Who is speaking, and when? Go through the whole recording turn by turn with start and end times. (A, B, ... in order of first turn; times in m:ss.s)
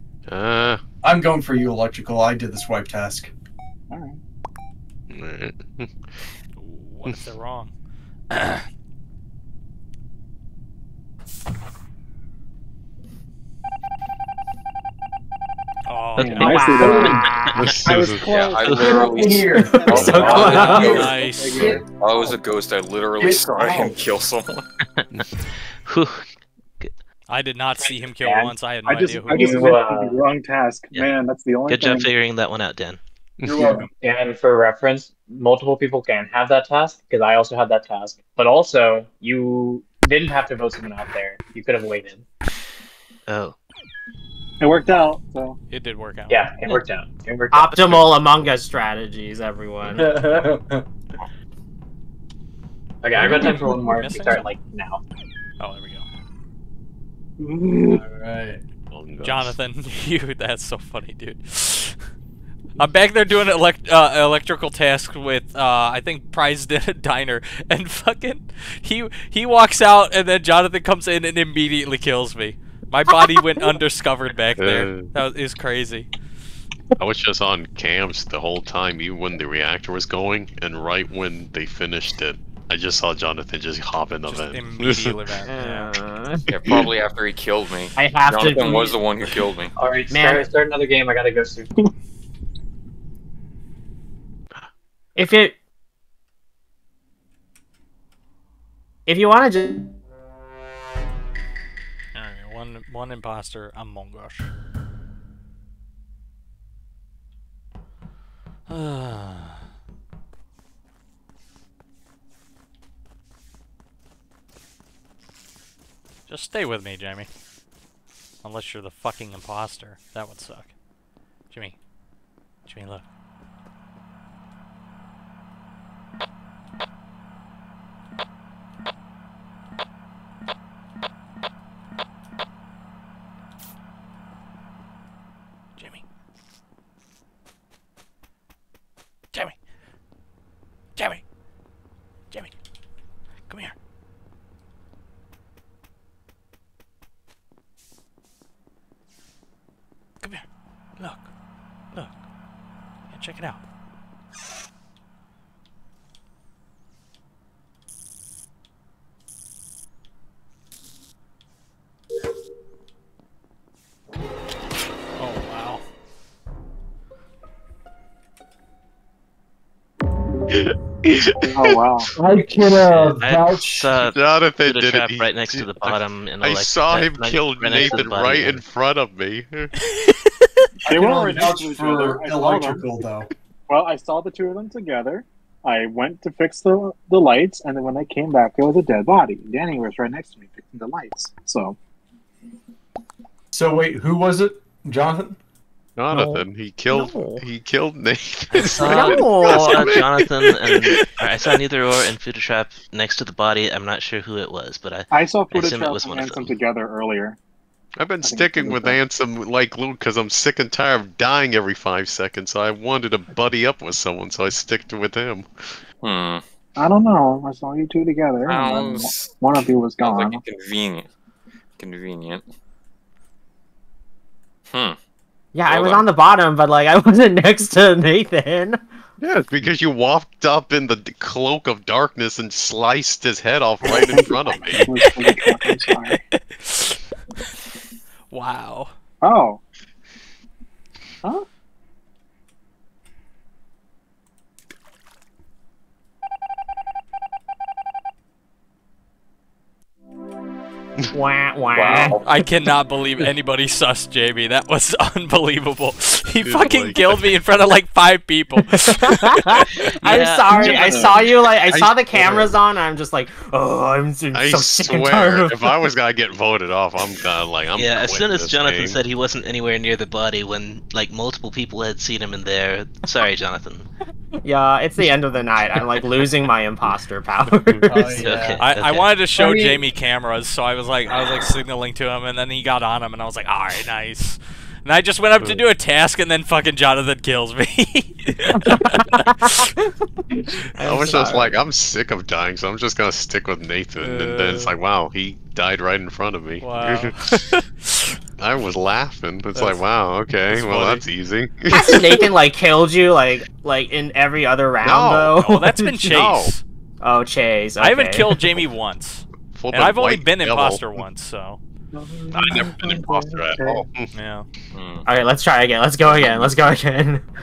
0:00.3-0:00.8 A
0:01.0-0:03.3 B
0:03.9-0:04.2 C
0:05.1-0:05.9 A
0:06.6-0:07.7 D
0:08.3-0:08.6 D
0:15.9-0:17.0 D
0:16.2-0:17.1 C
0:16.2-0:17.7 E
0:16.8-0:17.3 B
0:17.2-0:17.8 F
0:17.5-0:18.4 A
0:17.8-0:19.2 C
0:18.3-0:21.1 G
0:18.6-0:19.0 F
0:18.7-0:21.9 B
0:19.6-0:20.9 E
0:19.8-0:22.4 C
0:19.9-0:20.4 A
0:20.6-0:21.8 D
0:22.0-0:24.7 G
0:23.2-0:24.0 B
0:25.8-0:26.2 F
0:27.3-0:29.7 D
0:27.8-0:28.5 H
0:28.8-0:32.1 C
0:29.2-0:30.2 H
0:31.7-0:33.0 F
0:33.4-0:33.8 B
0:33.5-0:33.9 C
0:34.0-0:42.2 H
0:43.3-0:43.6 F
0:44.6-0:45.6 C
0:45.7-0:46.5 D
0:46.3-0:48.0 H
0:47.5-0:50.4 E
0:50.0-0:50.8 B
0:53.0-0:55.0 H
0:53.2-0:53.6 C
0:53.7-0:54.4 D
0:55.6-0:56.1 D
0:57.4-0:58.0 C
0:57.9-0:58.6 B
0:58.9-0:59.6 A
0:59.2-1:02.0 D
1:02.8-1:16.1 D
1:14.6-1:15.1 A
1:17.0-1:25.4 A
1:24.2-1:25.9 D
1:25.5-1:26.4 E
1:26.5-1:29.7 G
1:26.6-1:26.9 A
1:28.0-1:29.0 E
1:29.8-1:31.7 H
1:30.1-1:30.5 E
1:35.2-1:35.5 E
1:39.1-1:39.8 E
1:42.1-1:44.5 D
1:48.7-1:49.6 D
1:56.3-1:57.3 D
1:58.4-2:00.7 D
2:01.5-2:01.8 D
2:02.6-2:03.0 D
2:15.8-2:16.0 D
2:21.0-2:21.2 D
2:23.5-2:23.7 D
2:31.0-2:31.3 D
2:33.1-2:33.6 D
2:45.2-2:45.8 D
2:50.5-2:51.8 A
2:51.4-2:52.1 C
2:52.2-2:53.9 B
2:53.0-2:58.6 F
2:54.0-2:59.7 A
3:00.8-3:03.3 B
3:00.9-3:02.9 C
3:03.7-3:11.8 C
3:13.5-3:15.4 B
3:16.0-3:21.0 A
3:16.1-3:17.5 E
3:18.5-3:26.6 F
3:18.7-3:20.0 E
3:25.1-3:27.4 C
3:28.0-3:35.8 A
3:28.2-3:29.0 C
3:36.0-3:36.4 G
3:36.8-3:40.4 C
3:38.4-3:41.1 G
3:41.8-3:42.5 G
3:44.7-3:45.0 G
3:45.5-3:48.8 E
3:45.6-3:46.0 G
3:49.2-3:54.9 A
3:53.8-3:56.2 C
3:56.1-3:57.0 D
3:58.3-3:58.9 D
3:59.2-3:59.6 C
4:11.1-4:12.2 E
4:11.7-4:12.2 G
4:12.2-4:19.4 D
4:16.4-4:17.2 A
4:18.7-4:25.8 E
4:20.0-4:20.5 F
4:20.4-4:21.3 C
4:21.7-4:22.4 A
4:24.3-4:29.0 A
4:27.7-4:33.9 F
4:34.4-4:38.4 E
4:37.5-4:37.8 A
4:37.9-4:38.6 B
4:38.1-4:39.1 F
4:38.6-4:49.6 D
4:39.3-4:39.8 H
4:45.4-4:45.6 A
4:50.7-4:51.6 E
4:50.8-4:57.4 A
4:54.0-4:54.8 D
4:56.6-4:58.1 D
4:58.4-5:02.3 A
4:59.5-4:59.9 D
5:00.5-5:01.0 D
5:01.7-5:06.3 E
5:04.8-5:05.4 A
5:05.3-5:06.6 D
5:06.1-5:06.5 A
5:07.0-5:08.4 E
5:07.8-5:11.6 D
5:09.5-5:10.8 A
5:11.9-5:13.8 C
5:12.3-5:14.1 A
5:14.1-5:14.5 D
5:14.7-5:15.0 G
5:15.1-5:17.2 E
5:16.0-5:16.5 A